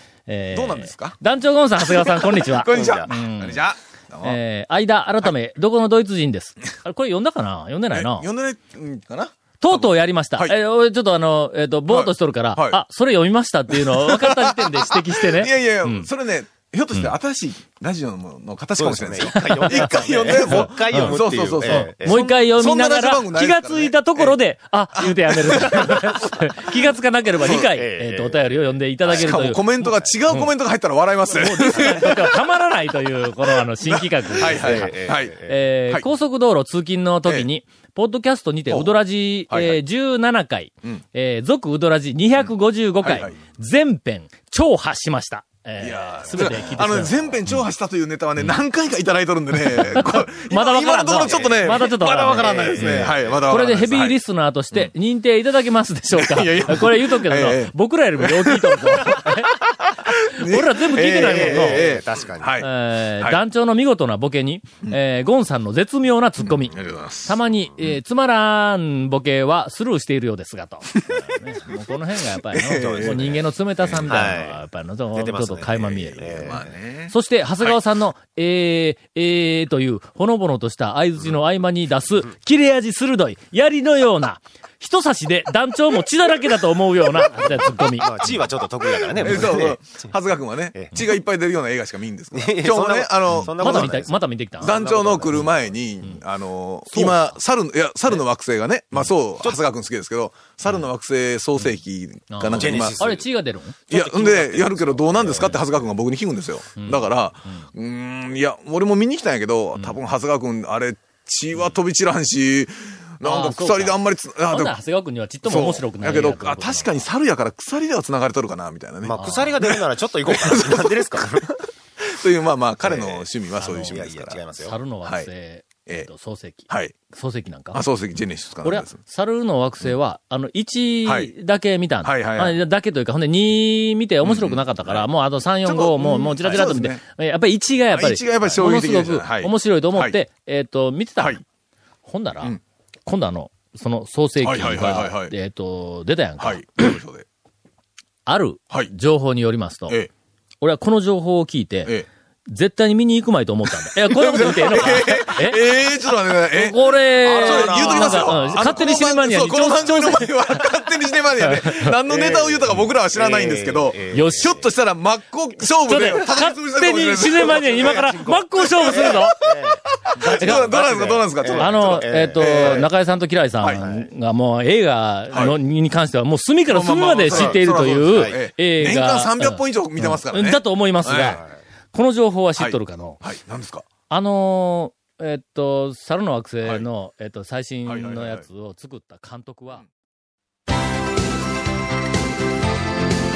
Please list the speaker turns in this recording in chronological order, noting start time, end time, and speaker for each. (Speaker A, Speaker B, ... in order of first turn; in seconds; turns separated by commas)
Speaker A: 0.3-3.6, Speaker B: 0.5-1.2, Speaker B: 1.8-4.4, Speaker C: 2.7-3.1, Speaker A: 4.2-8.3, Speaker B: 7.9-10.6, Speaker A: 9.6-16.1, Speaker B: 11.9-12.8, Speaker B: 13.7-24.4, Speaker C: 18.8-22.2, Speaker A: 19.3-30.5, Speaker B: 24.9-26.5, Speaker B: 27.4-27.7, Speaker C: 27.5-28.5, Speaker C: 29.0-29.4, Speaker B: 29.1-32.4, Speaker A: 31.2-47.6, Speaker B: 33.8-35.4, Speaker C: 34.4-35.5, Speaker B: 39.5-39.8, Speaker B: 43.0-43.3, Speaker B: 45.8-54.2, Speaker A: 49.5-59.7, Speaker C: 51.2-53.5, Speaker B: 56.1-63.4, Speaker A: 60.3-62.0, Speaker C: 61.1-62.6, Speaker A: 62.6-88.3, Speaker B: 66.4-67.5, Speaker B: 72.5-74.1, Speaker C: 72.7-73.4, Speaker C: 74.0-74.6, Speaker C: 75.1-76.7, Speaker B: 75.7-77.8, Speaker C: 88.0-90.1, Speaker B: 89.2-94.0, Speaker A: 89.2-89.5, Speaker C: 90.7-91.0, Speaker C: 92.3-95.6, Speaker A: 93.3-94.8, Speaker B: 94.6-103.0, Speaker A: 102.3-105.6, Speaker C: 102.4-103.2, Speaker B: 103.9-114.7, Speaker C: 103.9-104.3, Speaker C: 105.2-105.5, Speaker A: 106.8-107.7, Speaker A: 113.2-117.0, Speaker B: 115.4-124.4, Speaker C: 119.0-121.6, Speaker A: 119.2-119.6, Speaker C: 122.8-124.8, Speaker A: 123.6-124.0, Speaker A: 124.6-127.8, Speaker B: 126.7-126.9, Speaker B: 127.7-129.0, Speaker A: 128.6-141.4, Speaker B: 131.0-131.3, Speaker B: 132.0-132.6, Speaker B: 134.2-135.1, Speaker B: 135.6-137.0, Speaker B: 137.9-140.2, Speaker A: 142.0-146.9, Speaker B: 144.4-145.3, Speaker B: 146.4-147.2, Speaker A: 148.2-150.0, Speaker A: 150.6-152.0, Speaker A: 152.5-155.6, Speaker B: 153.9-172.9, Speaker A: 156.5-160.3, Speaker C: 157.2-158.7, Speaker A: 161.4-161.9, Speaker C: 162.1-164.6, Speaker A: 164.1-164.6, Speaker A: 165.9-169.5, Speaker C: 167.4-172.9, Speaker A: 170.2-170.9, Speaker A: 171.5-183.2, Speaker B: 173.6-173.8, Speaker C: 173.8-174.1, Speaker B: 175.3-175.6, Speaker B: 176.7-181.4, Speaker C: 177.2-178.4, Speaker B: 182.6-183.9, Speaker A: 184.1-189.8, Speaker B: 187.8-188.4